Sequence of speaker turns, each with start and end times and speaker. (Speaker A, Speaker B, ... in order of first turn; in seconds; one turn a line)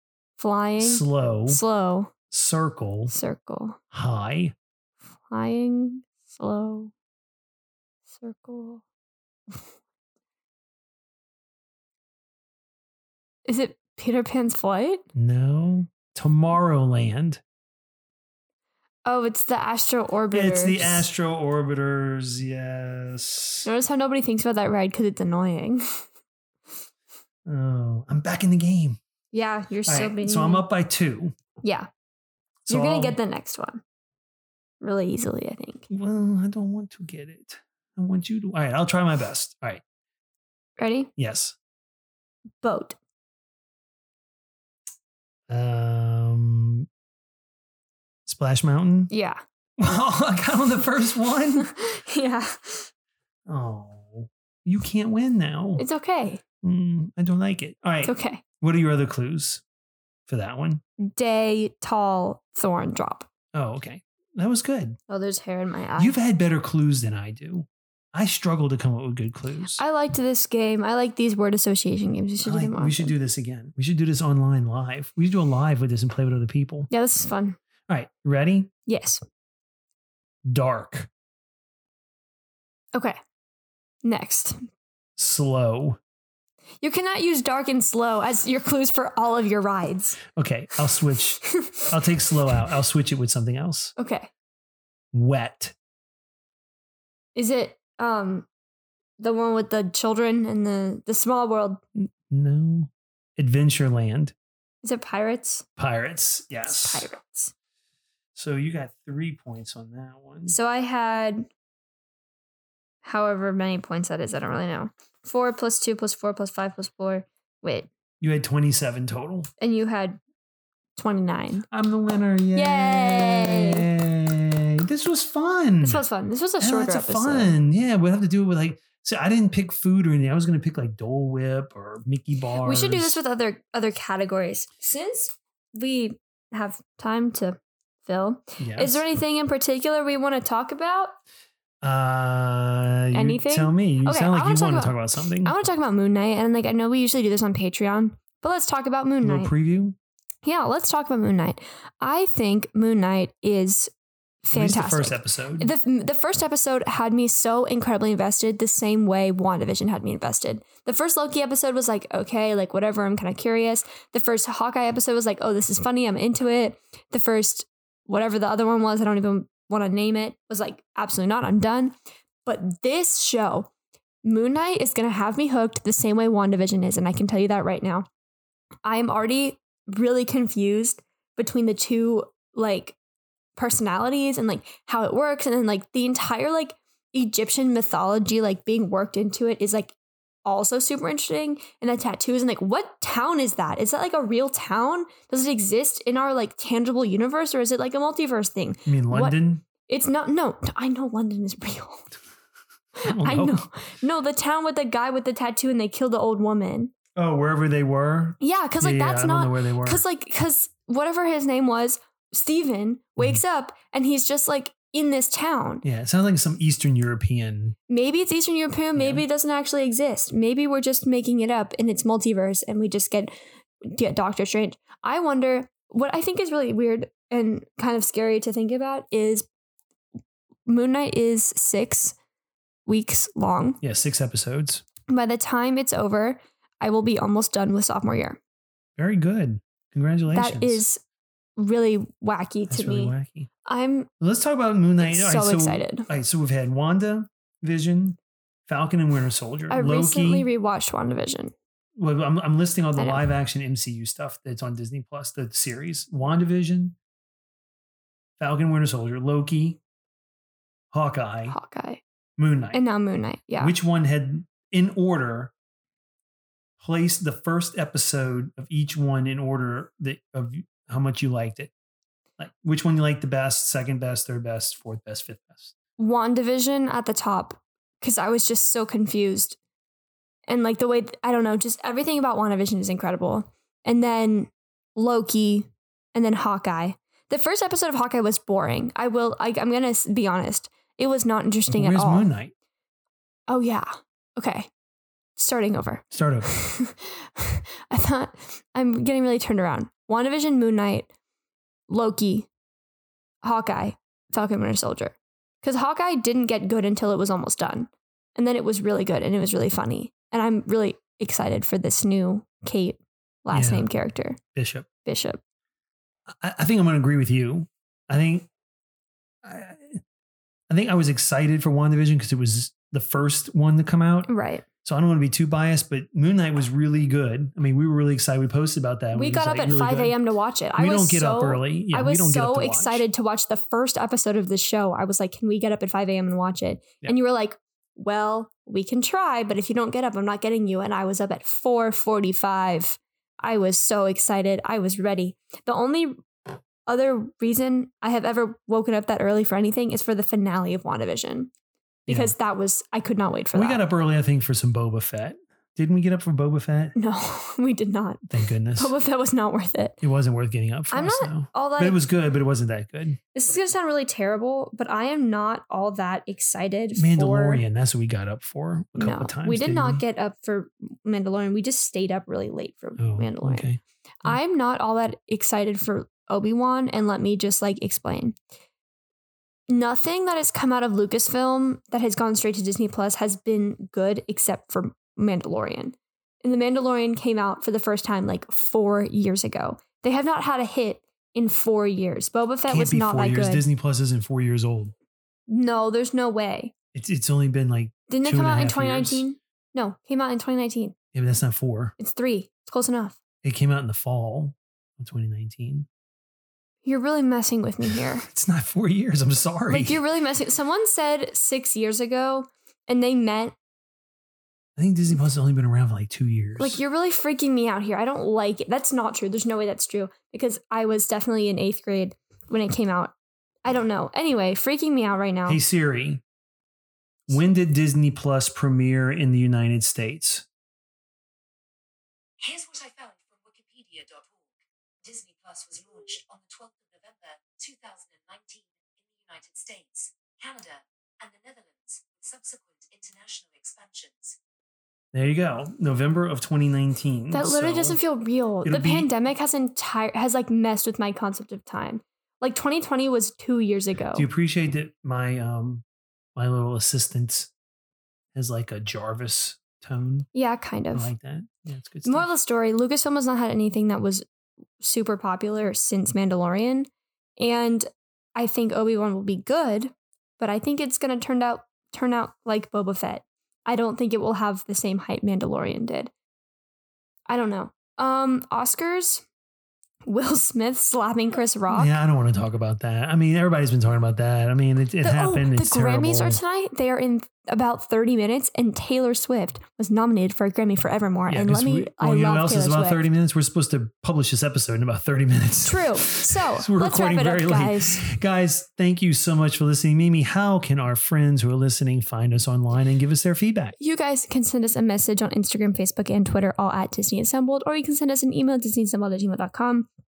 Speaker A: 0.4-2.1
Speaker B: 0.8-1.6
Speaker B: 2.3-3.1
Speaker A: 3.1-3.8
Speaker B: 3.9-4.5
Speaker A: 5.3-6.9
Speaker A: 8.1-8.8
Speaker A: 13.4-15.0
Speaker B: 15.1-17.4
Speaker A: 19.1-21.1
Speaker B: 20.3-23.7
Speaker A: 23.6-26.0
Speaker B: 27.4-29.0
Speaker A: 29.3-30.7
Speaker B: 29.9-31.4
Speaker A: 31.6-31.9
Speaker B: 32.7-33.2
Speaker A: 32.7-33.8
Speaker A: 34.8-35.9
Speaker B: 35.9-39.8
Speaker A: 40.8-41.1
Speaker B: 41.2-41.6
Speaker A: 42.6-43.0
Speaker B: 45.5-46.9
Speaker B: 48.2-49.1
Speaker A: 49.1-49.4
Speaker B: 49.8-51.7
Speaker A: 51.6-52.9
Speaker B: 53.5-55.8
Speaker A: 55.8-56.4
Speaker B: 56.6-59.6
Speaker A: 58.0-58.4
Speaker B: 60.3-60.8
Speaker A: 61.0-63.3
Speaker B: 63.5-65.0
Speaker A: 65.1-66.2
Speaker B: 66.0-69.8
Speaker A: 69.8-73.1
Speaker B: 72.4-76.9
Speaker A: 76.9-77.6
Speaker B: 77.9-78.7
Speaker A: 78.9-79.2
Speaker B: 80.4-81.1
Speaker A: 84.0-84.7
Speaker B: 85.2-86.0
Speaker A: 86.8-90.2
Speaker B: 90.3-93.9
Speaker A: 91.5-91.9
Speaker A: 94.0-94.3
Speaker B: 95.1-95.7
Speaker A: 97.3-98.5
Speaker A: 99.2-101.8
Speaker B: 102.0-104.3
Speaker A: 104.8-105.7
Speaker B: 105.8-107.1
Speaker A: 106.7-107.5
Speaker B: 108.3-110.6
Speaker A: 110.5-111.5
Speaker A: 113.0-117.9
Speaker B: 118.2-119.5
Speaker A: 119.6-120.2
Speaker A: 121.0-121.7
Speaker B: 121.7-126.0
Speaker A: 122.5-123.8
Speaker A: 125.8-127.5
Speaker B: 126.6-133.2
Speaker A: 132.6-141.1
Speaker B: 138.6-139.0
Speaker B: 141.8-145.6
Speaker A: 143.1-149.5
Speaker B: 149.2-149.9
Speaker A: 150.4-153.9
Speaker A: 154.4-171.9
Speaker B: 154.5-155.7
Speaker A: 172.4-173.7
Speaker A: 174.2-178.1
Speaker A: 178.8-182.9
Speaker A: 183.6-189.9
Speaker A: 190.4-202.1
Speaker B: 198.9-199.6
Speaker A: 203.0-206.9
Speaker B: 203.0-203.6
Speaker B: 207.1-210.0
Speaker A: 208.4-215.8
Speaker B: 215.8-217.8
Speaker A: 217.9-229.5
Speaker B: 218.9-219.2
Speaker A: 230.7-232.1
Speaker A: 232.9-233.8
Speaker B: 233.8-234.8
Speaker A: 235.1-238.4
Speaker B: 239.0-240.8
Speaker A: 240.3-241.0
Speaker A: 241.6-244.1
Speaker B: 242.7-243.5
Speaker B: 244.2-250.5
Speaker A: 245.0-246.1
Speaker A: 249.7-251.5
Speaker B: 251.9-256.9
Speaker A: 253.0-253.3
Speaker B: 258.4-259.8
Speaker B: 260.9-261.6
Speaker A: 261.5-262.0
Speaker B: 262.4-262.8
Speaker A: 262.7-263.7
Speaker B: 263.6-265.5
Speaker B: 266.8-271.7
Speaker B: 272.4-275.7
Speaker A: 276.0-279.6
Speaker A: 280.5-292.3
Speaker B: 291.7-292.5
Speaker A: 293.5-294.7
Speaker A: 295.4-301.1
Speaker B: 296.1-296.5
Speaker A: 301.9-302.5
Speaker A: 303.4-314.4
Speaker B: 313.5-313.9
Speaker B: 314.5-314.9
Speaker A: 315.1-315.4
Speaker B: 316.3-318.5
Speaker B: 319.4-320.0
Speaker B: 320.7-324.3
Speaker A: 324.3-324.6
Speaker B: 324.8-330.2
Speaker A: 329.1-346.2
Speaker B: 330.8-333.0
Speaker A: 346.9-351.5
Speaker B: 352.1-352.3
Speaker A: 352.1-353.8
Speaker B: 353.5-356.9
Speaker A: 356.9-360.0
Speaker B: 358.3-358.9
Speaker B: 360.0-363.2
Speaker A: 360.9-362.0
Speaker A: 363.3-367.6
Speaker B: 366.9-370.0
Speaker A: 368.9-373.7
Speaker B: 373.0-374.4
Speaker A: 374.2-378.4
Speaker A: 379.7-393.6
Speaker B: 392.7-394.9
Speaker A: 395.5-396.7
Speaker B: 396.9-399.2
Speaker A: 398.1-400.9
Speaker B: 401.1-401.9
Speaker A: 402.0-403.2
Speaker B: 403.4-405.9
Speaker A: 406.9-408.3
Speaker B: 407.8-410.0
Speaker A: 409.7-413.6
Speaker B: 414.8-416.8
Speaker A: 416.6-425.6
Speaker B: 425.4-426.2
Speaker B: 427.3-430.4
Speaker C: 432.4-444.4
Speaker B: 445.1-448.0
Speaker A: 447.3-454.3
Speaker B: 448.6-449.1
Speaker B: 454.1-455.8
Speaker B: 456.4-457.5
Speaker B: 458.3-460.3
Speaker A: 460.3-461.1
Speaker B: 460.9-462.3
Speaker A: 462.1-464.2
Speaker A: 464.8-476.1
Speaker A: 477.3-479.2
Speaker A: 480.1-482.0
Speaker B: 481.7-486.4
Speaker A: 485.0-493.0
Speaker B: 491.3-503.8
Speaker A: 495.6-498.1
Speaker A: 503.8-509.9